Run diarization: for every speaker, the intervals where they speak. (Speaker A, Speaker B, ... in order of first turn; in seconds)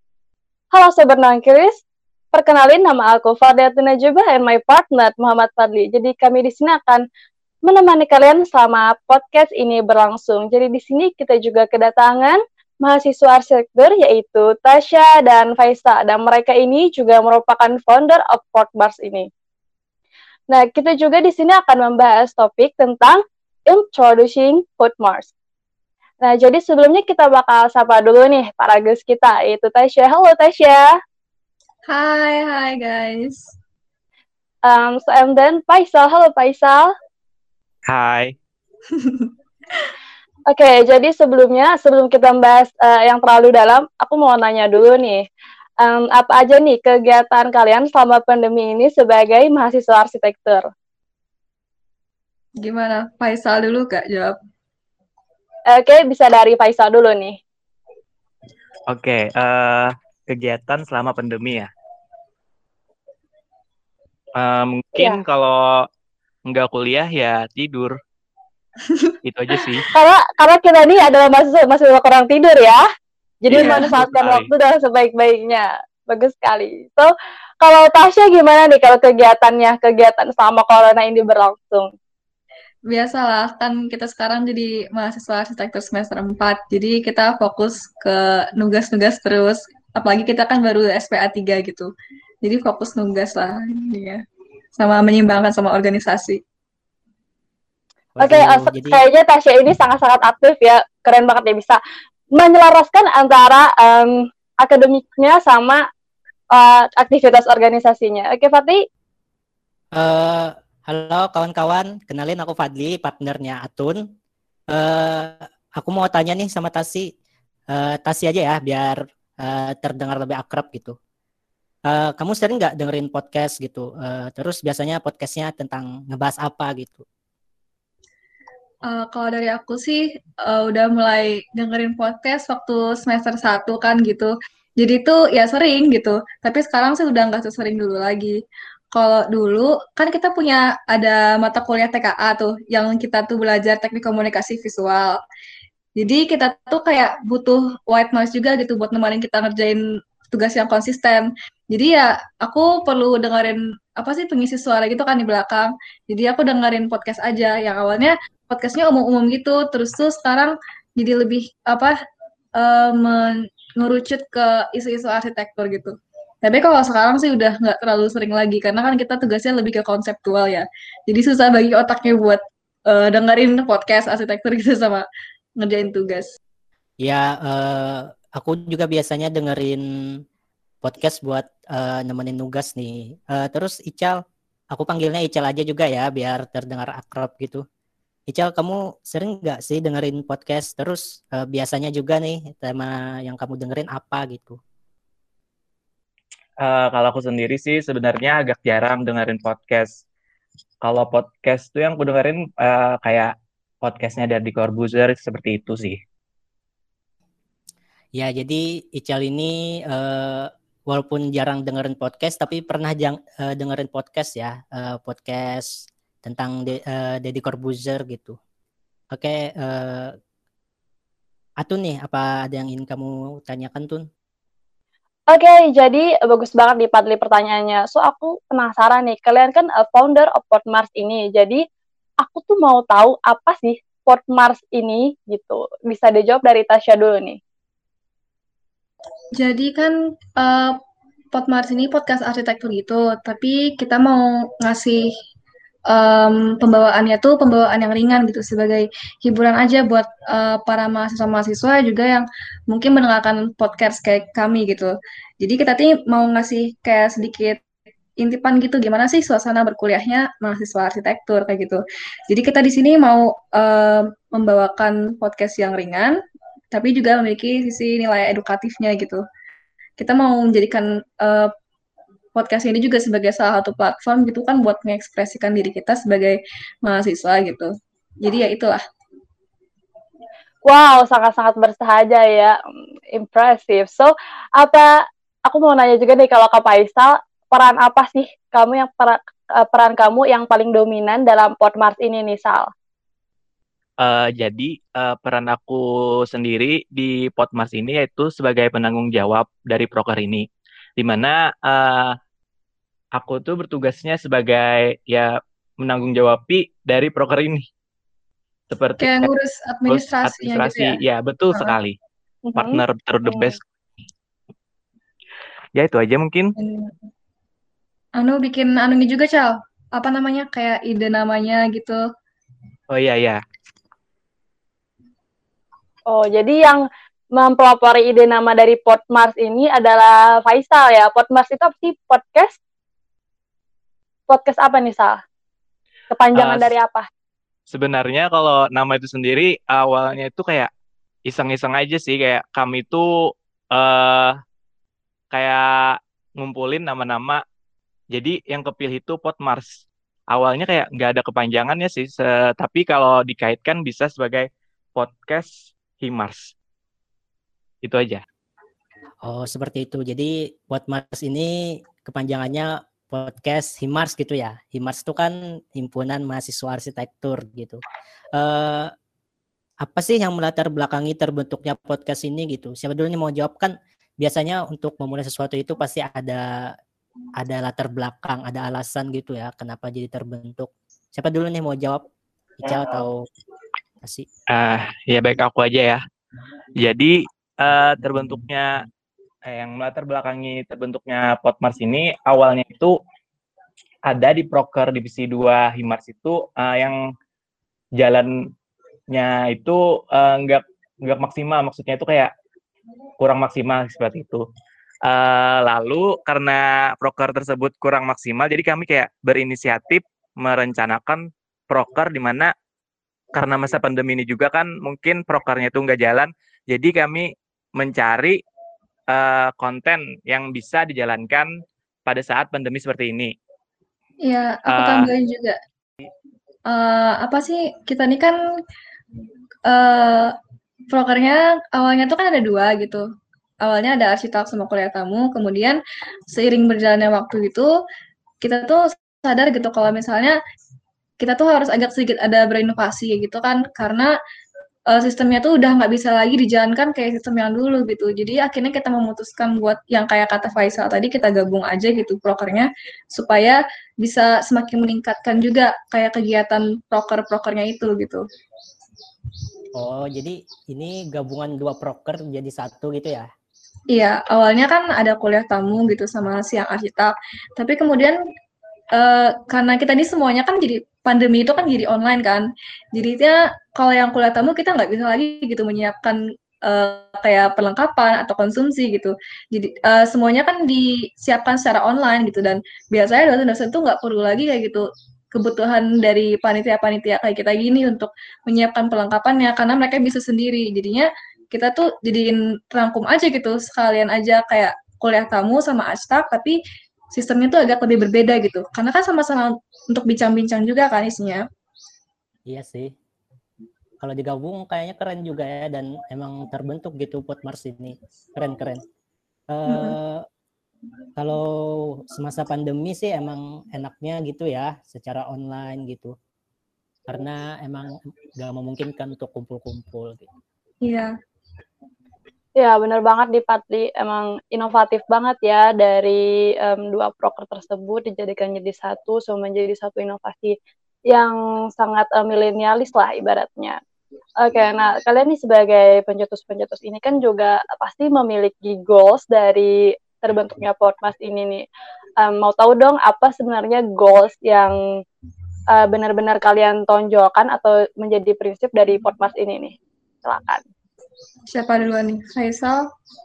Speaker A: 0.7-1.8, 2.3-7.0, 7.7-19.3, 20.5-25.3, 26.2-30.9, 34.7-36.9, 40.5-45.2, 45.8-50.6, 55.7-57.4, 69.9-72.8, 73.4-77.1, 77.6-81.9, 98.2-101.8, 102.3-105.8, 106.5-108.8, 225.3-231.6, 232.2-237.4, 280.6-282.6, 283.1-284.9, 285.5-292.7, 312.4-313.6, 326.1-326.8, 327.4-332.6, 334.3-335.2, 336.1-337.1, 522.6-530.5, 531.1-533.8, 534.4-541.6, 542.2-544.8, 545.7-550.6
Speaker B: 31.9-33.5, 38.9-39.3, 52.6-54.3, 82.9-91.9, 92.4-94.2, 94.8-96.4, 128.8-138.4, 138.9-145.2, 146.0-161.9, 162.6-175.0, 175.6-176.3, 239.3-240.8, 241.3-245.1, 245.9-257.6, 258.2-266.2, 266.7-269.2, 270.0-271.5, 272.4-277.7, 278.2-278.8, 309.0-311.0, 316.6-317.0, 318.2-322.0, 424.2-425.6, 426.7-428.4, 429.6-430.3, 430.9-433.0, 433.6-437.7, 438.4-440.4, 441.2-444.1, 444.9-458.2, 463.9-468.2, 468.9-496.6, 497.1-501.4, 509.7-510.0, 520.8-521.1, 551.5-552.8
Speaker C: 37.9-38.3, 58.9-61.7, 64.3-65.9, 66.5-68.0, 69.2-69.9, 73.5-74.5, 196.6-200.0, 200.8-203.3, 203.8-206.0, 294.0-300.4, 301.0-302.1, 303.1-307.6, 308.7-309.3, 309.9-311.9, 312.6-313.6, 315.8-316.5, 322.9-323.4, 336.3-336.7, 337.7-340.7, 341.3-344.4, 345.3-347.4, 348.1-356.5, 357.8-358.2, 384.5-386.0, 386.8-388.7, 389.4-393.0, 394.1-397.0, 398.0-398.4, 399.1-402.3, 403.2-404.4, 405.0-412.5, 413.3-418.4, 419.1-421.5, 422.1-423.3, 424.7-425.1
Speaker D: 98.2-99.0, 109.9-114.0, 114.7-117.1, 117.7-121.0, 121.9-127.0, 177.0-180.2, 180.8-184.2, 184.7-187.6, 188.3-194.6, 208.1-218.4, 219.1-220.2, 221.6-224.0, 359.2-367.8, 368.3-368.9, 369.8-376.7, 377.4-382.0, 382.6-383.2, 384.0-384.3, 459.7-463.3, 502.5-502.9, 504.0-508.8, 509.5-510.2, 511.2-516.1, 517.1-520.3